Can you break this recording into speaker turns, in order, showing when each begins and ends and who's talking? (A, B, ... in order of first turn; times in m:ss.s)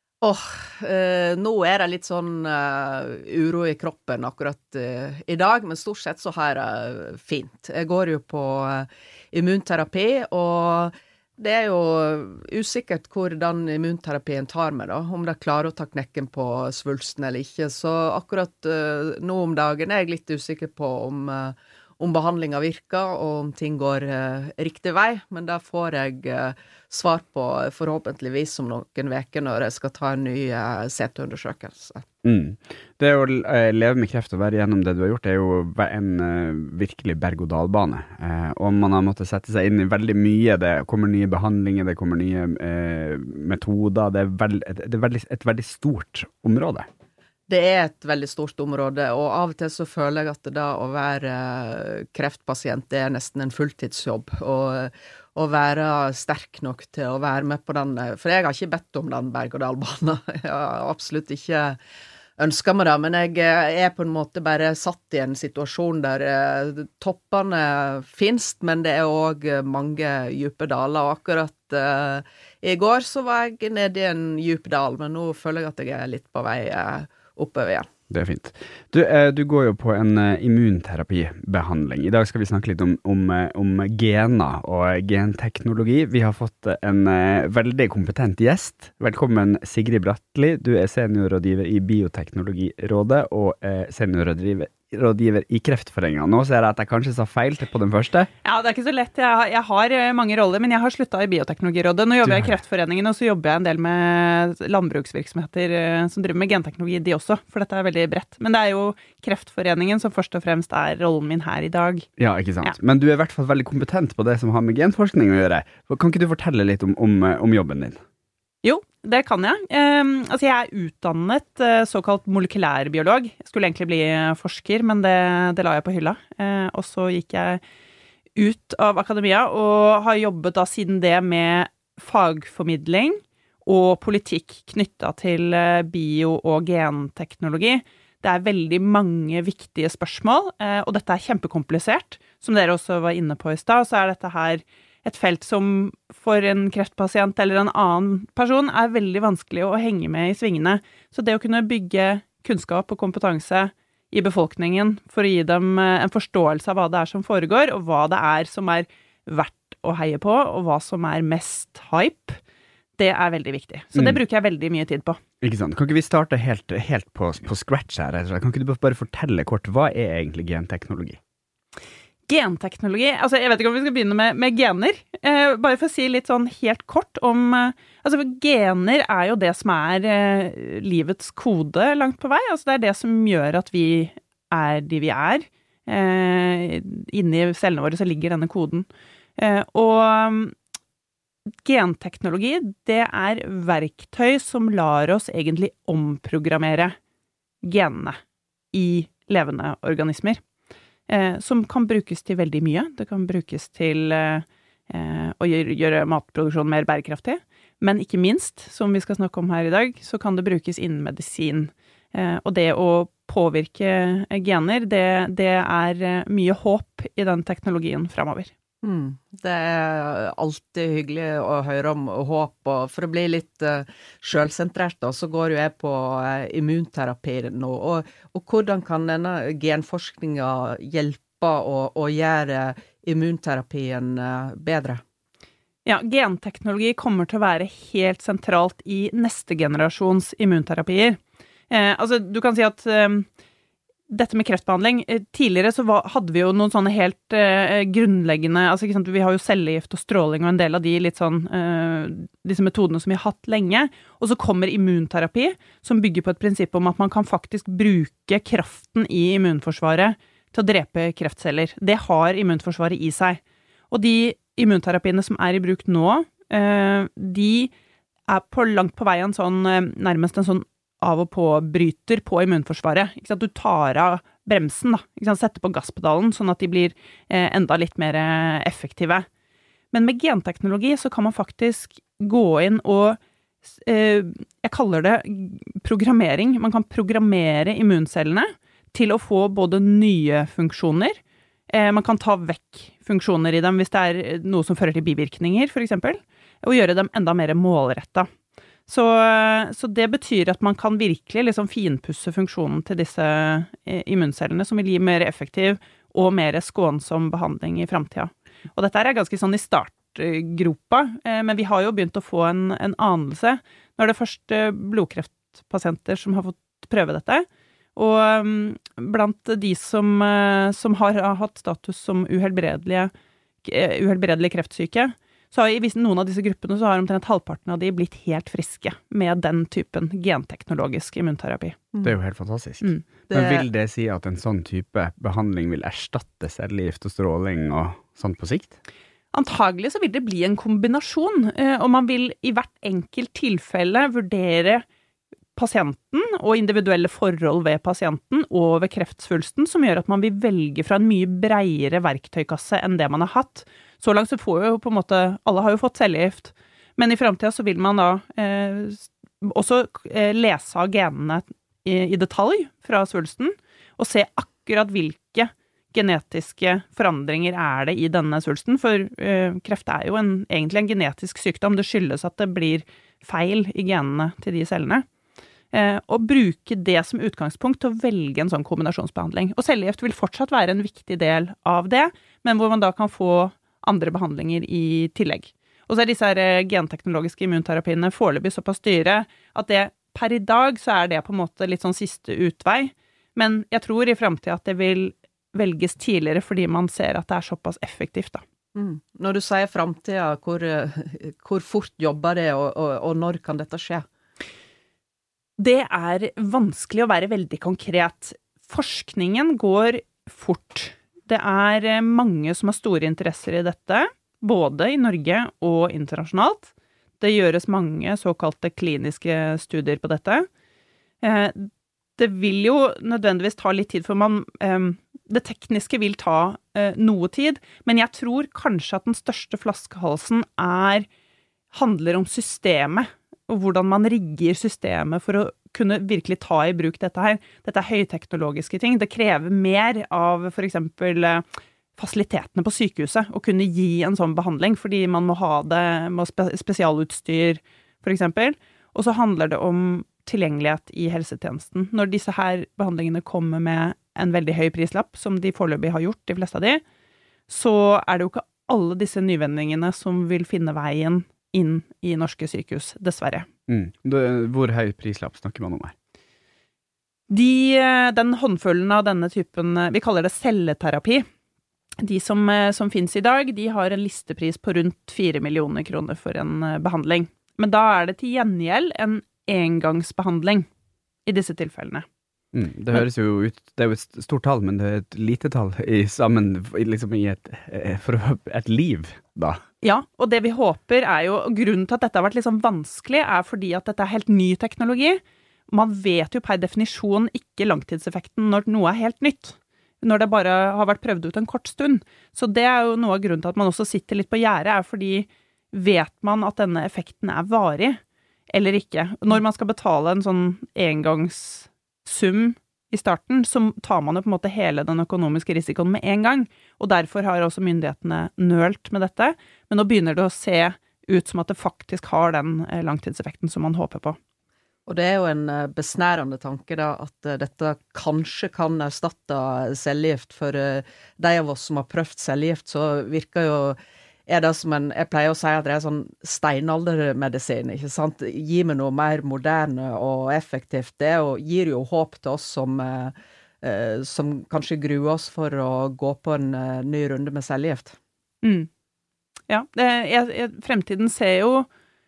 0:00.2-0:32.1 A
0:32.2-0:46.9 B
0:47.5-1:01.8 A
1:02.4-1:17.9 A
1:18.1-1:38.3 B
1:38.4-1:52.1 C
1:42.2-1:42.5 B
1:52.2-1:58.0 B
1:58.6-2:07.6 C
2:08.4-2:42.4 C
2:43.0-2:45.2 C
2:45.4-2:51.2 B
2:52.3-3:10.6 C
3:11.6-3:17.0 C
3:17.6-3:18.2 C
3:18.7-3:20.4 C
3:21.1-3:38.5 C
3:38.8-3:55.0 A
3:55.8-4:03.3 C
4:04.1-4:27.7 C
4:28.3-4:39.3 C
4:39.9-4:43.2 C
4:43.8-4:58.3 C
4:58.9-5:23.1 C
5:23.6-5:31.8 C
5:32.0-5:38.8 B
5:33.3-5:33.7 A
5:39.3-5:44.8 C
5:45.6-6:15.1 C
6:15.7-6:38.4 C
6:38.8-6:44.1 A
6:45.6-7:00.5 C
7:01.2-7:11.1 C
7:11.7-7:21.4 C
7:22.0-7:36.8 C
7:37.5-7:43.5 C
7:43.7-7:46.0 B
7:47.3-7:51.3 C
7:52.0-8:00.7 C
8:01.3-8:02.1 C
8:02.5-8:09.6 B
8:09.8-8:28.0 C
8:28.5-8:44.2 C
8:44.9-9:08.0 A
9:08.4-9:08.7 C
9:09.5-9:11.7 C